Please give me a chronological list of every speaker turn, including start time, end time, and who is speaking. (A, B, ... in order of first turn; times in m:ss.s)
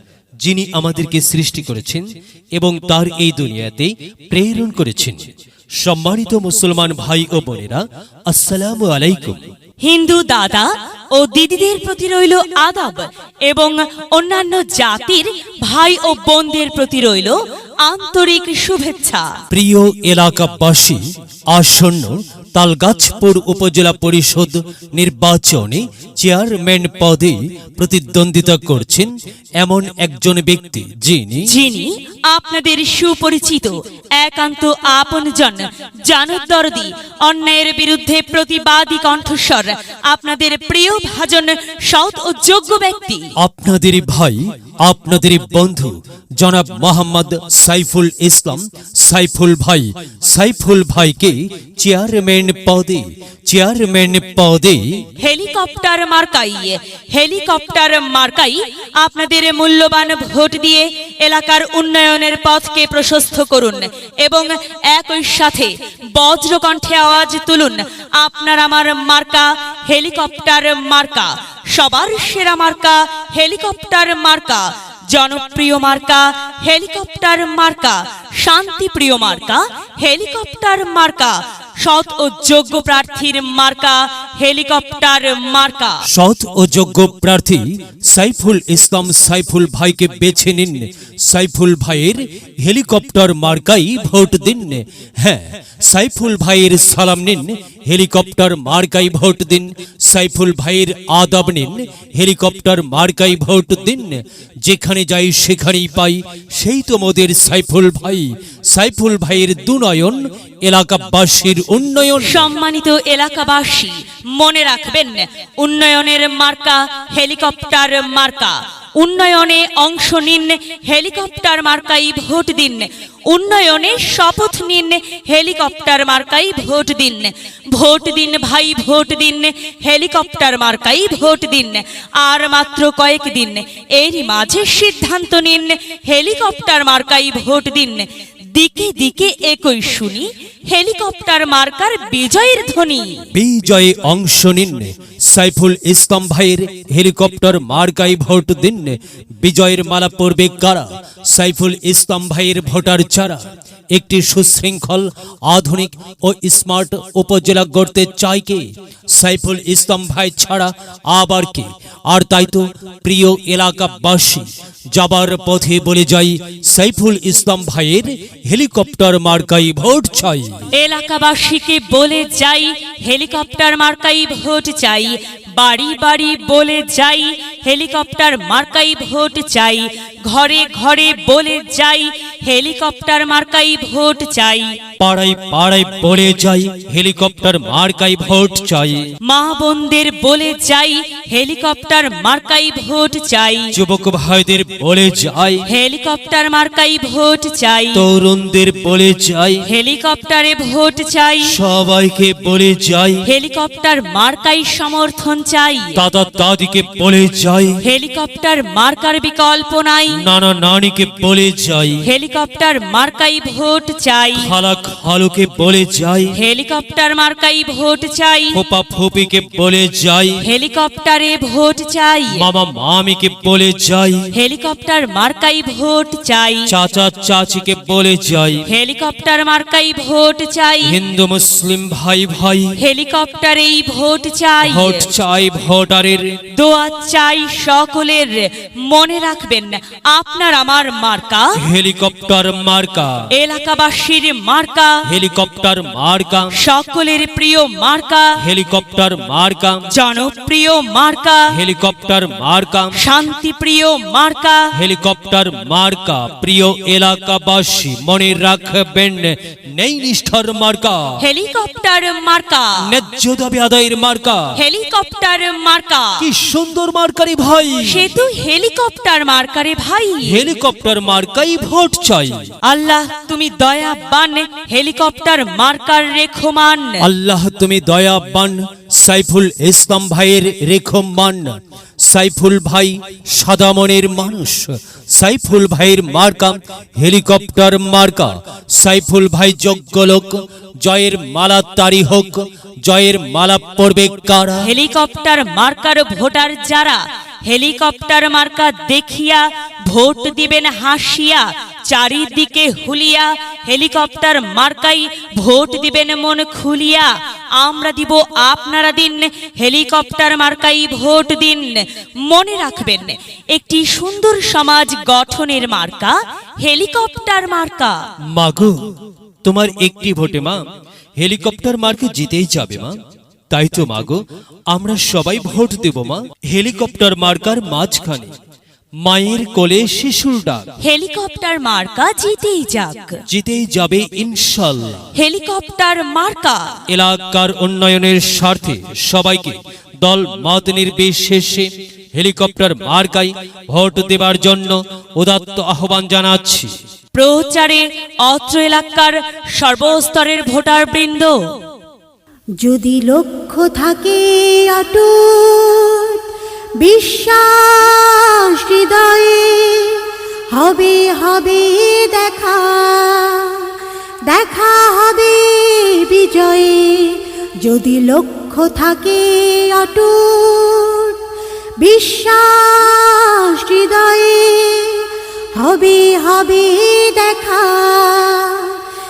0:00.4-0:05.3 A
0:05.8-0:09.4 A
0:09.8-0:19.3 B
0:19.5-0:31.5 A
0:31.5-0:43.3 B
0:43.4-0:54.9 A
0:55.2-1:26.0 B
1:26.1-1:52.5 A
1:52.2-2:23.3 B
2:23.3-2:50.6 A
2:50.7-3:04.8 B
3:05.0-3:09.1 A
3:09.2-3:13.7 B
3:13.7-3:15.7 A
3:15.7-3:18.0 B
3:17.9-3:19.6 A
3:19.7-3:21.5 B
3:21.4-3:23.2 A
3:23.3-3:26.0 B
3:26.0-3:27.8 A
3:27.8-3:30.2 B
3:30.2-3:32.0 A
3:32.0-3:34.5 B
3:34.4-3:36.4 A
3:36.4-3:38.6 B
3:38.5-3:40.4 A
3:40.4-3:42.4 B
3:42.3-3:44.3 A
3:44.3-3:46.7 B
3:46.7-3:48.6 A
3:48.7-3:51.0 B
3:50.8-3:52.8 A
3:52.8-3:55.1 B
3:54.6-3:56.4 A
3:56.6-4:01.6 B
4:01.6-4:03.3 A
4:03.3-4:05.0 B
4:05.1-4:06.6 A
4:06.5-4:08.4 B
4:08.4-4:09.9 A
4:09.9-4:11.5 B
4:11.5-4:13.0 A
4:12.9-4:14.7 B
4:14.7-4:21.2 A
4:21.2-4:22.8 B
4:22.8-4:24.6 A
4:24.6-4:26.2 B
4:26.2-4:28.1 A
4:27.8-4:30.4 B
4:30.2-4:32.5 A
4:32.6-4:37.0 B
4:37.0-4:54.7 A
4:54.6-5:18.0 B
5:18.3-5:18.8 A
5:19.4-5:20.6 A
5:21.2-5:23.0 A
5:23.5-5:28.3 A
5:29.0-5:30.6 A
5:30.8-5:33.2 B
5:33.3-5:35.0 A
5:35.1-5:36.7 B
5:36.9-5:46.7 A
5:47.1-5:51.4 B
5:52.6-5:56.2 C
5:56.8-6:03.7 C
6:04.3-6:11.2 C
6:11.8-6:18.8 C